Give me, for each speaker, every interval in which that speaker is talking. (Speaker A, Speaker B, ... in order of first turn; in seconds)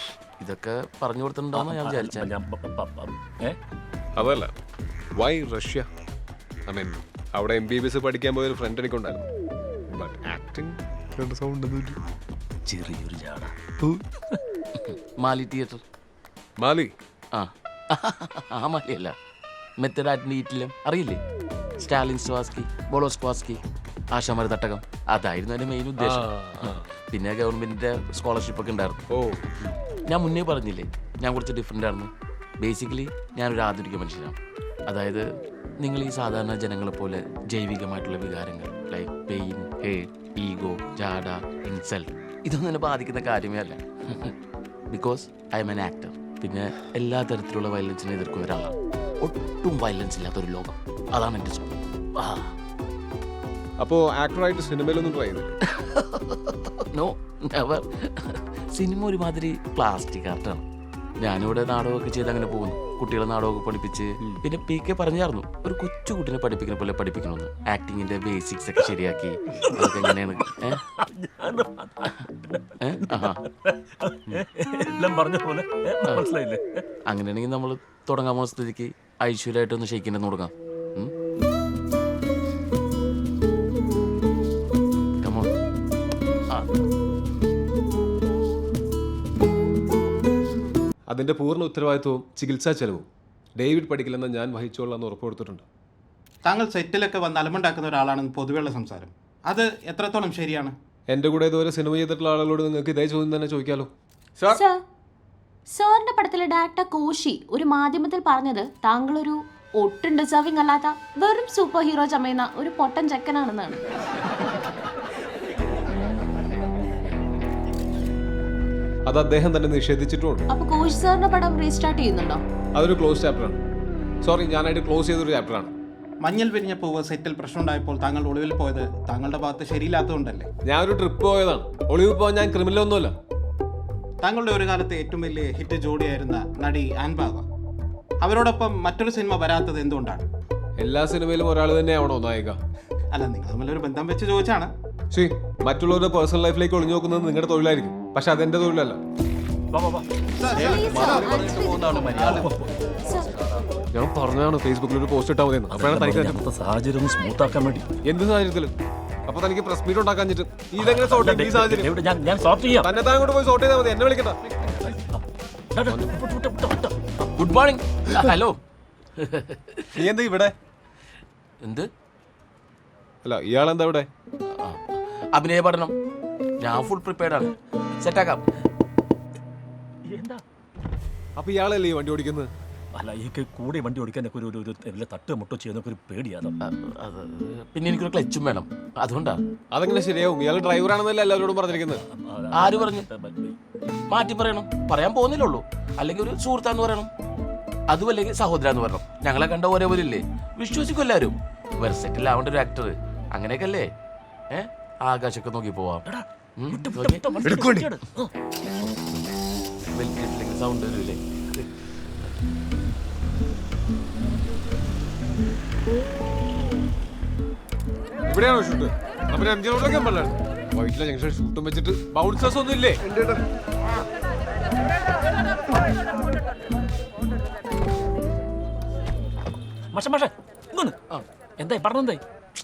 Speaker A: 0.4-2.3, 14.8-15.8, 17.3-19.1, 19.8-21.2, 21.8-23.6, 24.1-29.0, 30.0-32.1, 32.6-34.4, 34.9-35.2, 35.8-44.3, 44.9-52.5, 55.7-60.6, 61.2-70.8, 72.8-73.4, 77.1-81.1, 85.2-85.5, 86.5-86.8, 167.2-168.6, 169.2-170.0, 171.6-171.9, 174.5-175.9, 176.6-178.4, 186.6-189.4, 192.5-193.1, 194.1-197.1, 197.9-203.9, 204.5-206.0, 206.6-207.3, 209.9-211.7
Speaker B: 1.5-3.6, 12.6-13.9, 69.7-70.1, 70.8-76.8, 149.7-150.1, 152.1-152.7, 155.7-157.9, 160.8-162.9, 164.8-167.0, 180.1-180.4, 182.9-186.6, 191.9-193.6, 206.0-208.3, 229.9-231.0, 231.6-232.2
Speaker C: 4.2-4.5, 5.1-5.9, 6.7-9.3, 9.9-12.0, 16.6-16.9, 26.0-26.9, 29.1-29.5, 53.8-55.5, 91.1-95.6, 101.1-104.6, 119.0-120.5, 122.7-123.6, 124.2-125.7, 130.6-133.2, 140.8-142.6, 145.1-149.0, 150.9-151.5, 153.9-156.4, 158.0-158.7, 159.3-161.9, 162.8-164.8, 169.9-170.5, 173.2-174.1, 181.3-182.5, 189.7-192.0, 207.4-207.9, 218.3-223.4
Speaker D: 96.4-100.8, 126.2-130.5, 134.2-137.4, 138.2-140.2, 143.1-144.7, 150.4-150.7
Speaker E: 104.5-104.8, 105.7-113.8, 120.5-122.4, 150.5-152.5, 153.0-153.3